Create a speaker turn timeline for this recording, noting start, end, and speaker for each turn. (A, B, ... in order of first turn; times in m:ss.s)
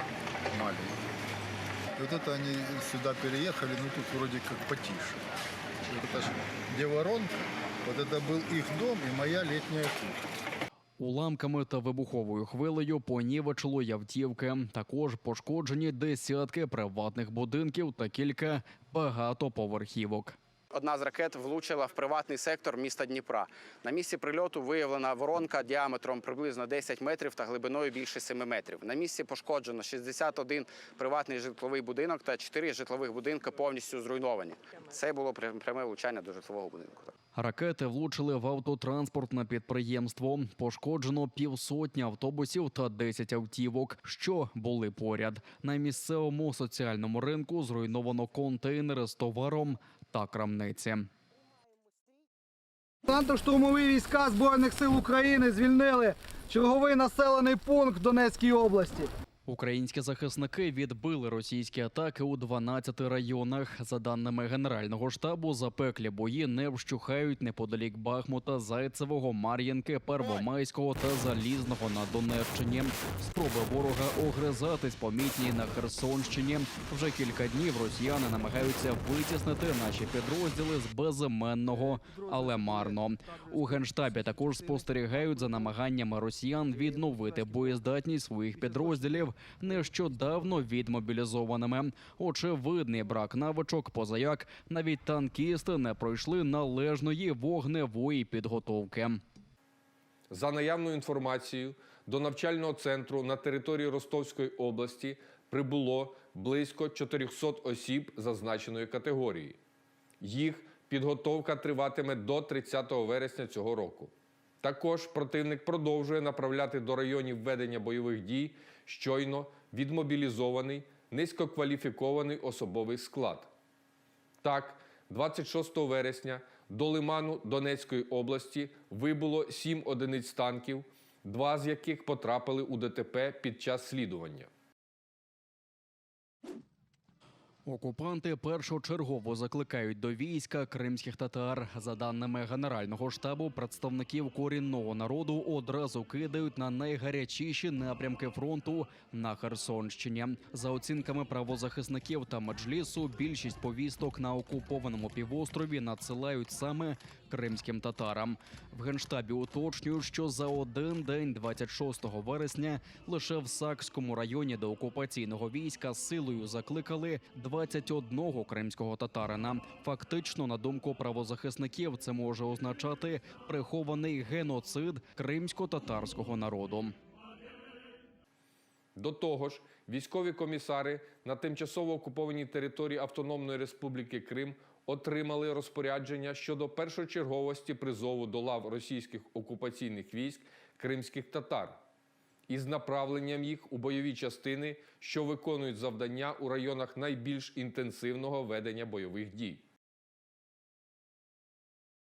0:00.5-0:01.0 A
0:02.0-0:05.2 A
0:05.9-0:07.3 A
0:07.8-0:10.2 A
0:11.0-0:20.4 B
0:20.7-0:37.1 C
0:37.3-0:51.1 B
0:53.0-0:59.1 D
0:59.4-1:39.2 B
1:40.3-1:49.6 E
1:50.2-1:54.1 E
1:54.6-2:03.5 E
2:04.4-2:14.5 E
2:17.6-2:56.9 B
2:59.0-3:11.8 E
3:12.5-3:19.6 E